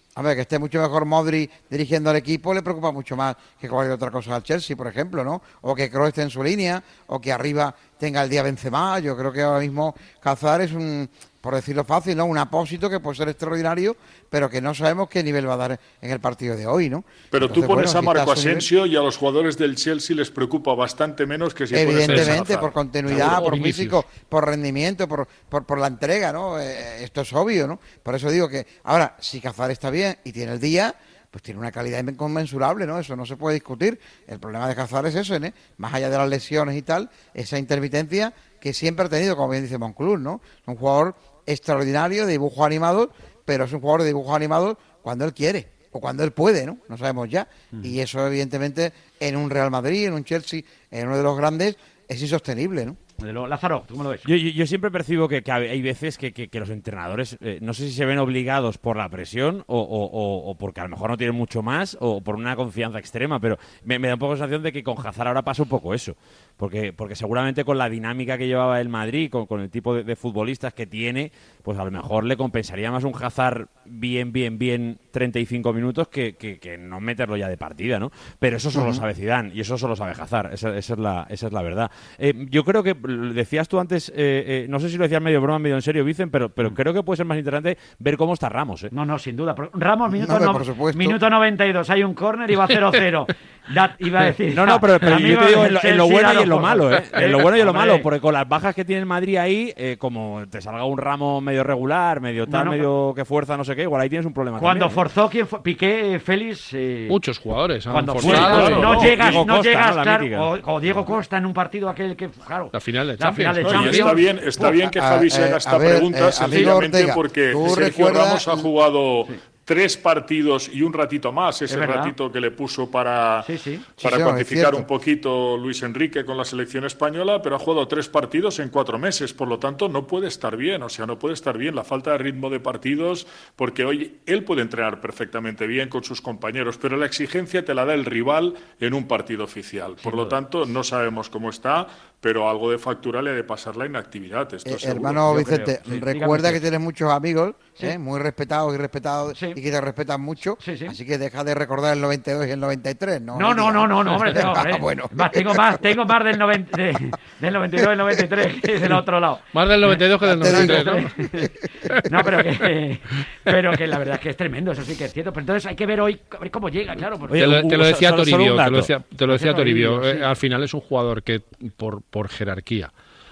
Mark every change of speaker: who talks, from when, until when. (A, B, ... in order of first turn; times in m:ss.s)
0:00.2-0:18.7 A
0:17.3-0:22.7 B
0:21.7-0:53.0 A
0:22.0-0:22.4 C
0:23.1-0:24.0 C
0:53.2-0:54.2 D
0:54.2-1:28.9 E
1:28.9-1:38.1 D
1:30.1-1:31.2 A
1:34.5-1:45.0 E
1:42.4-1:42.9 D
1:44.6-1:47.2 D
1:47.1-1:49.0 C
1:47.9-1:54.7 D
1:48.2-1:50.5 E
1:48.2-1:49.4 B
1:52.7-1:54.2 C
1:53.6-2:03.5 B
1:54.7-1:58.6 A
1:56.5-1:56.7 D
2:01.7-2:02.1 D
2:03.4-2:03.9 D
2:04.0-2:25.2 B
2:04.0-2:04.8 A
2:20.0-2:20.4 D
2:24.6-2:35.8 A
2:25.3-2:26.6 D
2:29.3-2:29.6 D
2:30.6-2:30.9 D
2:33.3-2:41.5 D
2:39.5-2:41.2 C
2:40.2-2:41.0 A
2:41.8-2:42.6 C
2:42.0-2:47.4 D
2:47.3-2:48.9 E
2:47.4-2:52.9 C
2:49.3-2:50.3 D